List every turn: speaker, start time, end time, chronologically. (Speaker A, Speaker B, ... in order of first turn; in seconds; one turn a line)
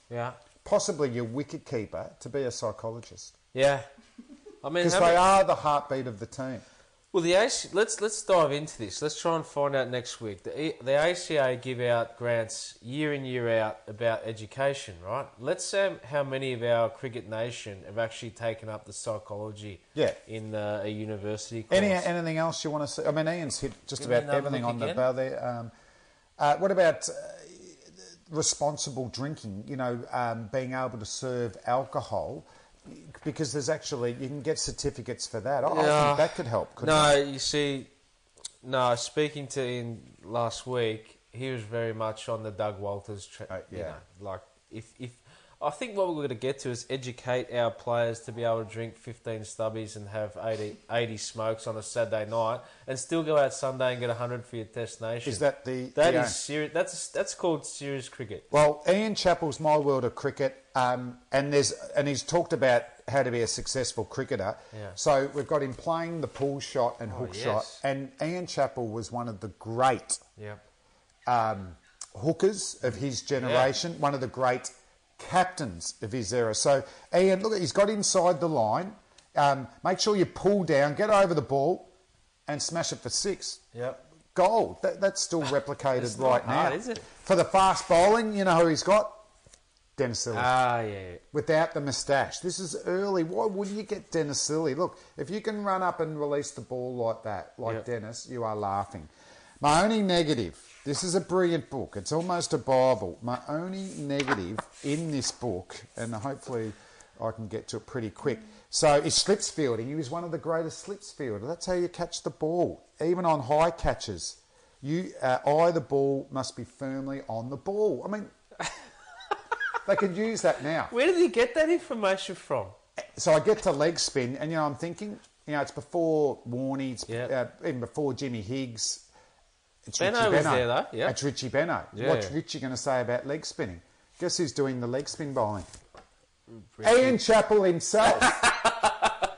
Speaker A: 0.1-0.4
Speaker B: 0.6-3.3
Speaker A: 3.5-3.9
Speaker A: 4.6-5.2
Speaker B: 4.8-6.6
Speaker A: 7.1-22.1
Speaker B: 21.7-25.7
Speaker A: 24.0-25.1
Speaker B: 26.4-37.1
Speaker A: 35.7-37.9
Speaker A: 38.6-55.4
Speaker B: 43.5-44.0
Speaker B: 55.2-56.4
Speaker A: 56.0-58.5
Speaker B: 58.5-70.2
Speaker A: 67.1-67.8
Speaker B: 71.3-81.9
Speaker A: 73.4-73.7
Speaker B: 82.5-83.7
Speaker A: 83.7-84.0
Speaker B: 84.3-89.2
Speaker A: 86.0-87.1
Speaker B: 90.0-90.5
Speaker A: 90.3-91.2
Speaker B: 91.3-99.1
Speaker B: 99.6-118.3
Speaker B: 119.8-120.9
Speaker A: 120.9-122.8
Speaker B: 123.1-129.1
Speaker B: 129.9-135.7
Speaker A: 130.0-131.2
Speaker A: 131.9-132.3
Speaker A: 136.5-137.2
Speaker B: 136.8-138.4
Speaker A: 138.2-139.1